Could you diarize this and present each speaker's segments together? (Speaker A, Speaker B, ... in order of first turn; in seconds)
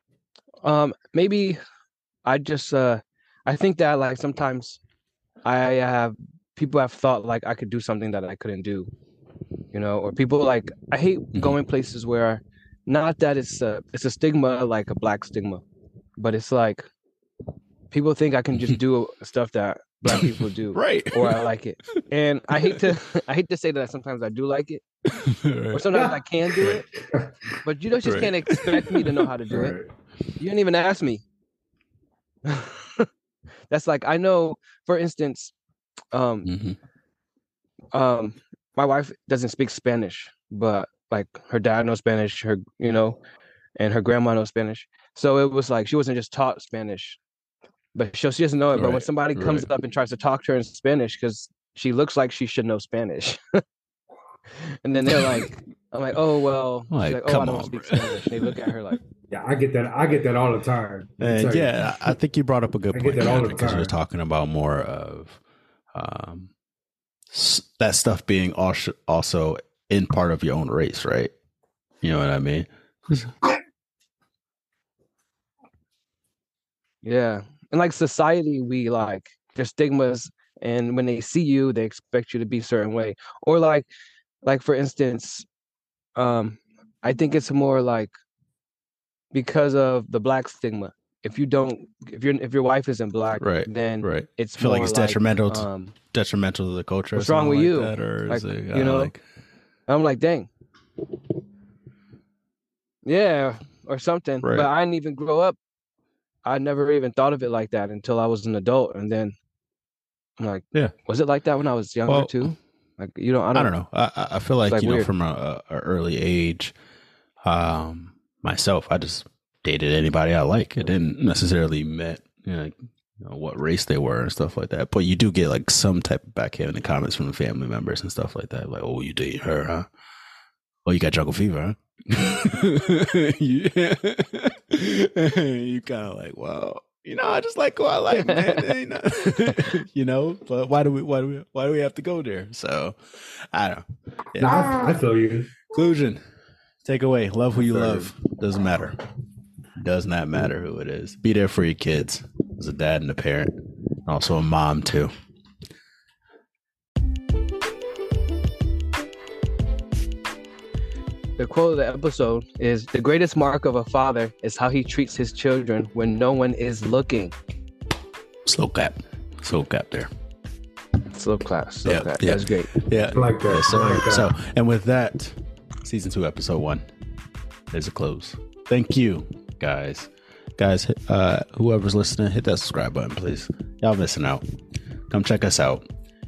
Speaker A: 0.6-1.6, 2.2-4.8, 5.4-8.9, 9.7-15.6, 16.2-16.9, 17.9-24.8, 25.7-26.9, 27.6-29.8, 30.4-31.2, 32.4-33.1, 33.7-35.5, 36.1-36.5, 37.9-43.2, 43.8-47.2, 47.9-53.6, 54.6-59.0, 77.0-83.9, 84.4-85.5, 86.2-88.1, 89.3-95.9, 97.1-99.1, 99.9-100.5, 103.0-105.5, 106.4-109.3, 110.4-113.7, 114.7-115.1, 138.2-138.6, 161.4-167.3, 171.1-172.7
Speaker B: 20.1-21.4, 25.1-26.1, 28.0-29.2, 36.4-36.8, 48.7-49.7, 55.1-55.4, 56.9-58.5, 61.2-65.4, 65.9-66.5, 67.3-71.3, 72.0-73.3, 93.4-99.2, 104.4-104.7, 112.1-112.5, 113.5-116.7, 117.4-129.9, 130.8-144.8, 145.7-146.2, 146.8-149.0, 149.8-155.1, 168.4-170.1, 171.8-176.9, 177.7-184.4, 185.1-185.8
Speaker C: 27.0-27.6, 29.5-29.9, 59.3-61.7, 62.9-63.9, 144.4-145.5, 147.7-148.1, 173.1-174.3